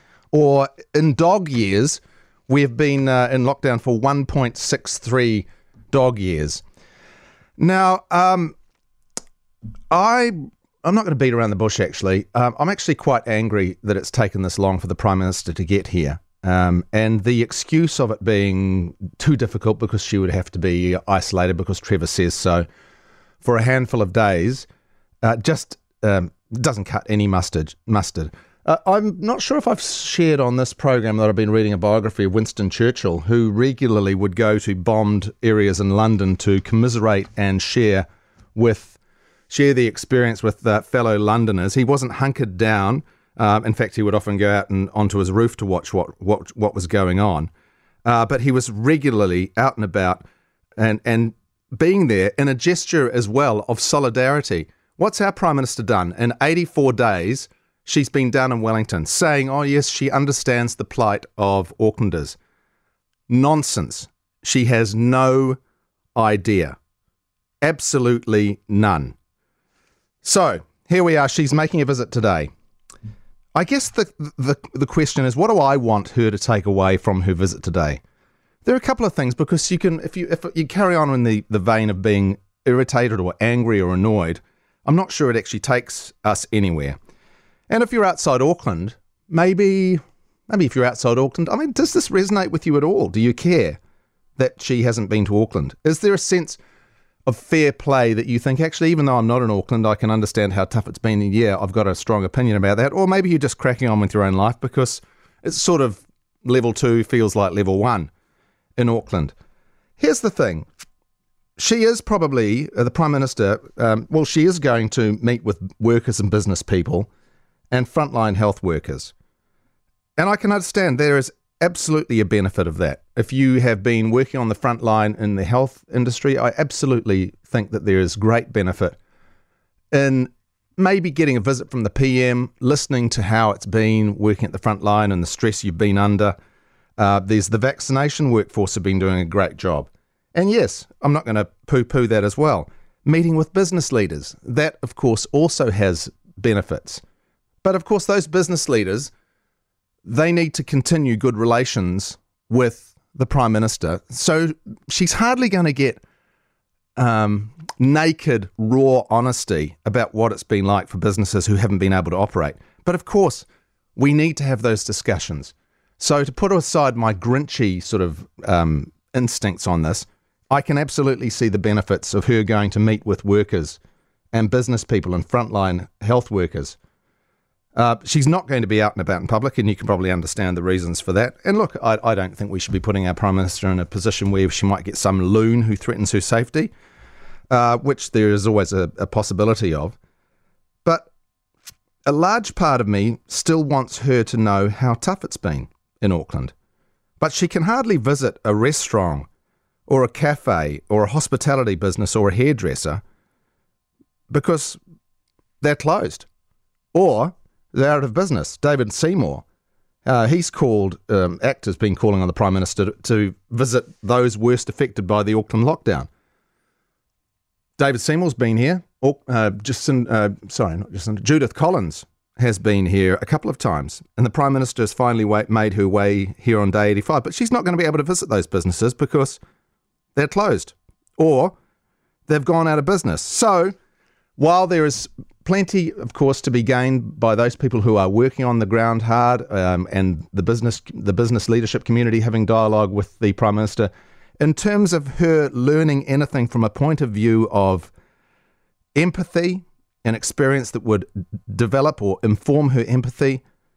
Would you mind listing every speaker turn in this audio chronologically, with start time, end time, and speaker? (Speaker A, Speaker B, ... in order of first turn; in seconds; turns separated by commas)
Speaker A: 0.3-6.6, Speaker A: 7.6-8.5, Speaker A: 9.9-22.6, Speaker A: 23.4-24.7, Speaker A: 25.2-39.0, Speaker A: 39.5-47.5, Speaker A: 48.0-50.2, Speaker A: 50.8-62.4, Speaker A: 63.3-65.6, Speaker A: 66.1-66.8, Speaker A: 67.6-69.1, Speaker A: 70.2-72.5, Speaker A: 73.5-78.0, Speaker A: 78.6-87.0, Speaker A: 87.7-93.8, Speaker A: 94.4-96.6, Speaker A: 97.2-108.1, Speaker A: 108.8-109.3, Speaker A: 110.0-110.6, Speaker A: 111.6-117.1, Speaker A: 117.7-119.1, Speaker A: 120.2-129.0, Speaker A: 129.9-136.3, Speaker A: 137.0-147.0, Speaker A: 147.6-149.1, Speaker A: 150.0-156.0, Speaker A: 156.9-173.8, Speaker A: 174.3-176.8, Speaker A: 177.7-186.7, Speaker A: 187.5-190.0, Speaker A: 192.1-196.5, Speaker A: 197.2-199.3, Speaker A: 199.9-203.0, Speaker A: 204.3-204.8, Speaker A: 205.6-206.3, Speaker A: 206.9-209.4, Speaker A: 210.0-216.1, Speaker A: 217.8-229.4, Speaker A: 230.2-231.5, Speaker A: 232.3-233.7, Speaker A: 234.4-247.9, Speaker A: 248.9-253.4